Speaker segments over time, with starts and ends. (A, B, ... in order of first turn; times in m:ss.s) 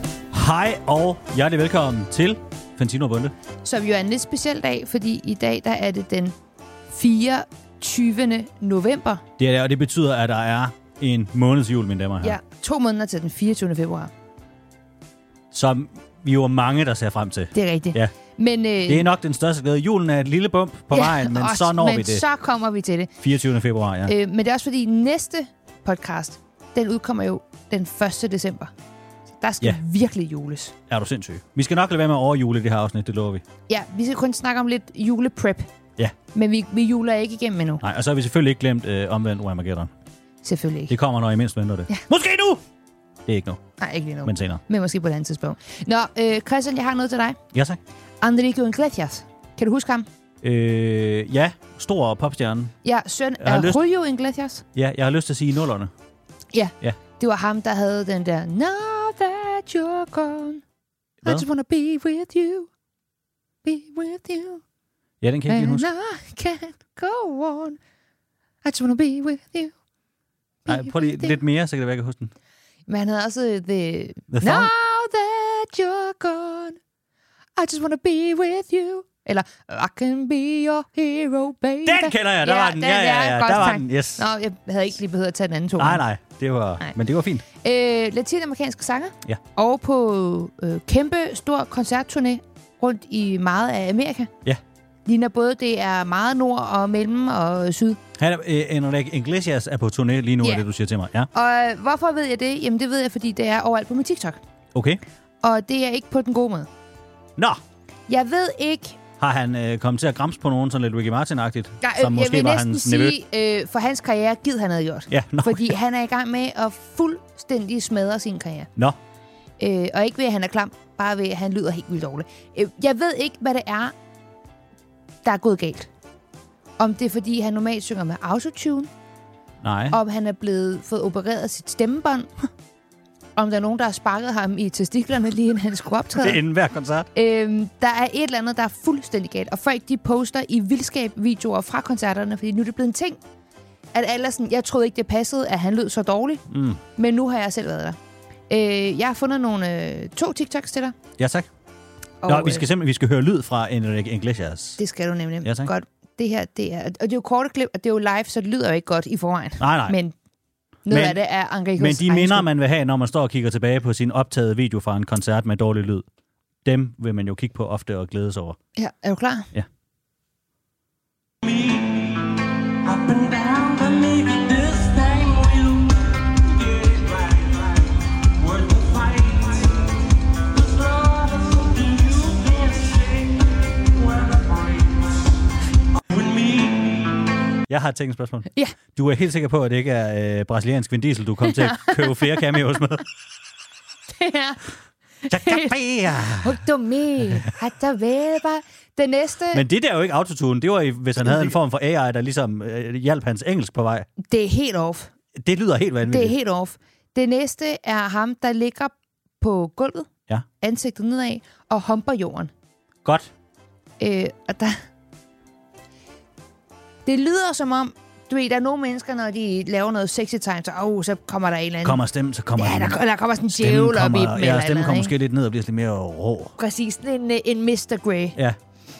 0:00.3-0:03.3 A
0:03.6-0:06.3 B
0:06.9-0:09.2 B
0:09.4-0:12.4 A
0:12.2-0:14.1 B
0:15.5-0:18.1 A
0:17.5-0:19.1 B
0:18.9-0:22.2 A
0:20.9-0:23.1 B
0:23.2-0:24.1 A
0:24.0-0:28.7 B
0:29.4-0:30.7 B
0:30.9-0:33.4 A
0:33.7-0:35.7 B
0:36.3-0:37.8 B
0:37.8-0:39.9 A
0:40.4-0:40.9 B
0:40.9-0:42.6 A
0:43.2-0:43.6 A
0:43.8-0:47.4 B
0:44.2-0:44.6 A
0:47.5-0:47.8 A
0:48.2-0:50.1 B
0:50.4-0:52.7 A
0:52.8-0:54.6 B
0:53.4-0:53.8 A
0:54.7-0:55.9 A
0:56.5-1:00.6 B
1:01.2-1:02.7 B
1:03.6-1:04.6 B
1:05.2-1:05.9 A
1:05.5-1:07.8 B
1:08.6-1:09.7 B
1:10.6-1:11.4 B
1:10.7-1:12.3 A
1:12.9-1:16.8 B
1:14.3-1:14.7 A
1:17.6-1:26.0 B
1:21.8-1:24.2 A
1:25.8-1:27.4 A
1:27.5-1:34.3 B
1:35.0-1:38.0 B
1:38.2-1:41.3 A
1:41.3-1:44.4 B
1:44.7-1:45.0 A
1:45.4-1:46.7 B
1:48.1-1:49.0 B
1:49.2-1:53.2 A
1:51.8-1:58.7 B
1:55.1-1:55.8 A
1:59.6-2:03.9 B
2:05.2-2:05.9 B
2:06.8-2:08.9 B
2:09.6-2:10.0 A
2:09.9-2:12.3 B
2:13.4-2:16.4 B
2:16.2-2:17.1 A
2:17.1-2:23.2 B
2:23.9-2:26.4 B
2:26.5-2:26.8 A
2:27.0-2:28.0 B
2:28.5-2:31.0 B
2:31.2-2:31.5 A
2:32.2-2:32.7 B
2:32.2-2:34.8 A
2:34.8-2:40.1 B
2:35.4-2:35.7 A
2:39.6-2:40.0 A
2:40.8-2:42.5 B
2:40.9-2:41.2 A
2:41.8-2:46.0 A
2:46.6-2:48.6 A
2:48.8-2:49.5 B
2:51.4-2:59.9 C
3:00.5-3:05.2 C
3:06.1-3:07.2 C
3:07.7-3:13.0 A
3:11.4-3:12.5 B
3:14.1-3:14.6 B
3:15.2-3:19.6 B
3:15.3-3:16.6 A
3:17.3-3:17.5 A
3:19.5-3:24.1 A
3:24.2-3:25.1 B
3:25.4-3:26.4 A
3:26.0-3:30.1 B
3:30.6-3:32.5 B
3:34.0-3:34.8 B
3:37.0-3:42.0 B
3:41.8-3:43.0 A
3:42.6-3:45.1 B
3:43.5-3:46.5 A
3:46.6-3:48.4 B